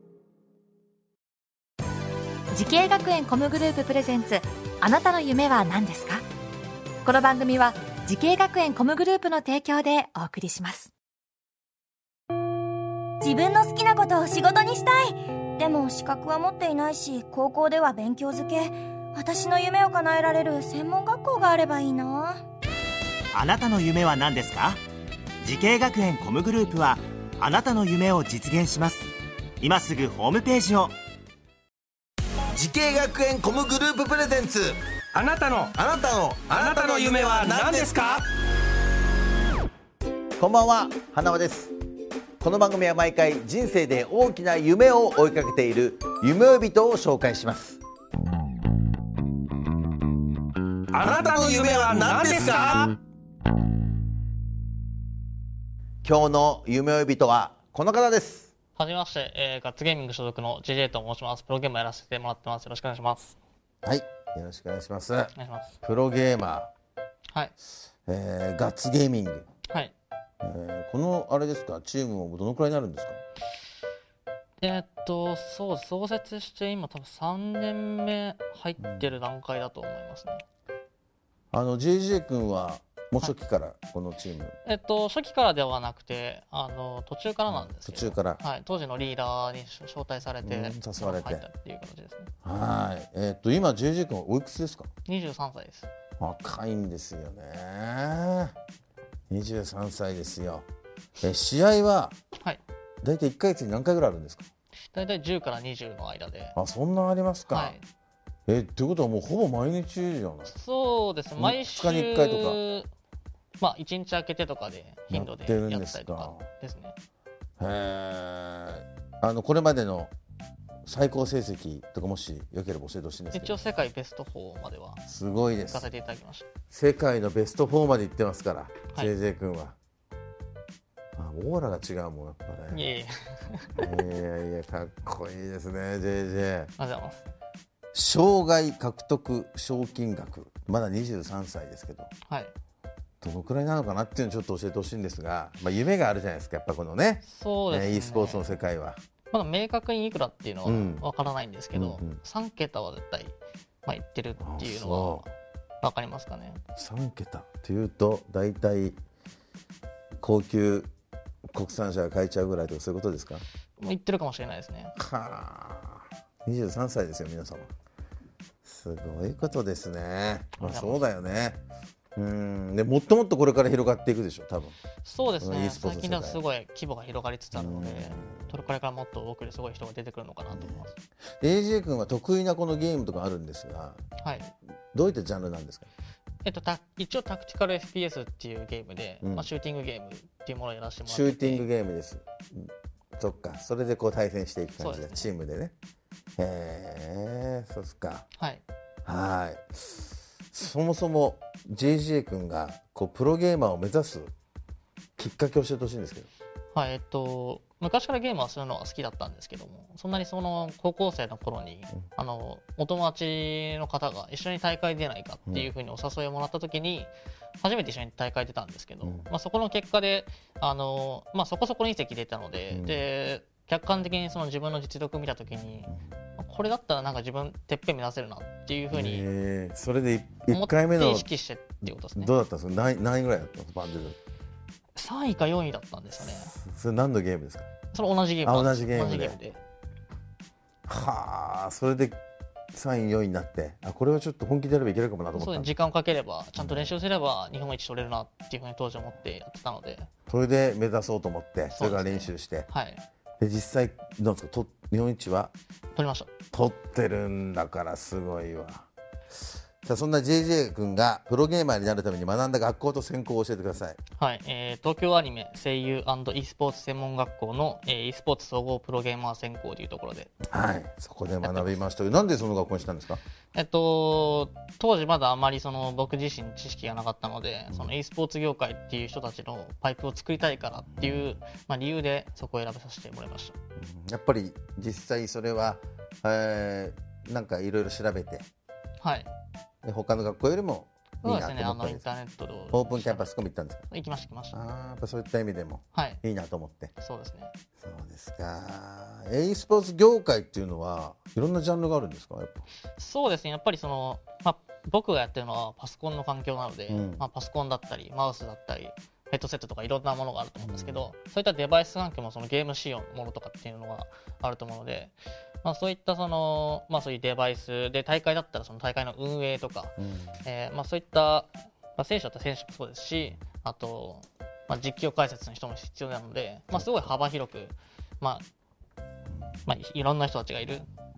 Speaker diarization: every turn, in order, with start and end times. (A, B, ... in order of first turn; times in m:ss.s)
0:02.5-0:06.2 A
0:07.0-0:10.9 A
0:13.2-0:22.4 B
0:23.3-0:24.8 C
0:25.4-0:29.1 C
0:29.6-0:31.0 C
0:32.6-0:34.7 D
0:35.1-0:35.9 E
0:35.8-0:37.9 D
0:36.5-0:38.2 E
0:40.4-0:41.7 D
0:42.4-0:47.8 D
0:50.9-0:52.9 E
0:51.2-0:52.8 D
0:56.0-0:58.5 D
0:58.8-1:03.4 F
1:03.8-1:06.7 D
1:05.4-1:05.8 F
1:08.1-1:09.4 D
1:09.7-1:09.9 F
1:10.4-1:13.2 D
1:14.6-1:20.4 F
1:21.5-1:24.6 D
1:24.6-1:32.3 F
1:27.5-1:28.4 D
1:30.4-1:31.4 D
1:32.4-1:34.9 D
1:35.0-1:35.9 F
1:36.2-1:38.5 D
1:39.3-1:40.6 D
1:41.2-1:42.1 D
1:42.4-1:42.6 F
1:43.0-1:44.5 D
1:44.9-1:46.6 F
1:46.6-1:47.8 D
1:47.5-1:47.8 F
1:48.5-1:50.5 D
1:50.5-1:52.9 F
1:51.4-1:52.6 D
1:53.6-1:57.0 F
1:55.1-1:56.4 D
1:57.6-2:00.1 D
2:00.8-2:03.6 D
2:03.3-2:05.0 F
2:05.0-2:05.9 D
2:05.6-2:06.5 F
2:06.7-2:09.8 D
2:11.2-2:12.8 D
2:12.7-2:13.9 F
2:13.8-2:16.7 D
2:16.8-2:17.3 F
2:17.9-2:22.1 D
2:22.3-2:22.5 F
2:23.2-2:29.0 D
2:27.2-2:28.5 F
2:29.3-2:35.3 F
2:30.6-2:31.0 D
2:31.7-2:32.2 D
2:34.4-2:35.3 D
2:35.8-2:36.6 F
2:36.7-2:39.0 D
2:40.2-2:40.9 D
2:41.5-2:43.4 D
2:43.8-2:44.9 F
2:45.0-2:47.7 D
2:48.6-2:51.6 D
2:50.6-2:51.0 F
2:52.2-2:54.8 D
2:55.0-3:00.9 F
2:55.4-2:56.4 D
2:57.5-2:58.6 D
3:00.5-3:00.8 D
3:01.4-3:04.0 D
3:04.2-3:04.5 F
3:04.9-3:05.9 D
3:06.4-3:11.6 F
3:09.2-3:09.5 D
3:11.0-3:15.7 D
3:14.8-3:15.3 F
3:16.4-3:18.2 D
3:18.4-3:18.6 F
3:19.0-3:24.3 D
3:25.2-3:26.3 D
3:26.7-3:49.2 F
3:39.0-3:39.3 D
3:42.7-3:43.0 D
3:48.9-3:51.3 D
3:50.5-3:52.3 F
3:51.8-3:54.2 D
3:55.0-3:56.5 F
3:56.2-3:57.7 D
3:57.9-3:59.6 F
3:58.4-3:59.4 D
4:00.8-4:02.2 D
4:02.7-4:05.7 D
4:05.3-4:10.1 F
4:06.6-4:07.0 D
4:10.3-4:12.7 D
4:11.7-4:13.0 F
4:13.4-4:15.5 D
4:15.9-4:16.3 F
4:16.5-4:18.9 D
4:19.8-4:24.0 D
4:24.2-4:30.3 F
4:30.4-4:33.2 D
4:31.4-4:31.7 F
4:33.5-4:43.6 F
4:41.0-4:41.4 D
4:43.8-4:48.4 D
4:49.0-4:49.3 F
4:49.8-4:52.0 D
4:51.2-4:53.3 F
4:52.7-4:53.9 D
4:53.9-4:54.6 F
4:54.5-4:56.9 D
4:55.9-4:56.2 F
4:57.0-4:57.5 F
4:57.8-5:02.6 D
5:03.0-5:28.4 F
5:06.9-5:07.2 D
5:10.6-5:11.1 D
5:20.0-5:20.4 D
5:26.7-5:27.1 D
5:29.6-5:30.9 F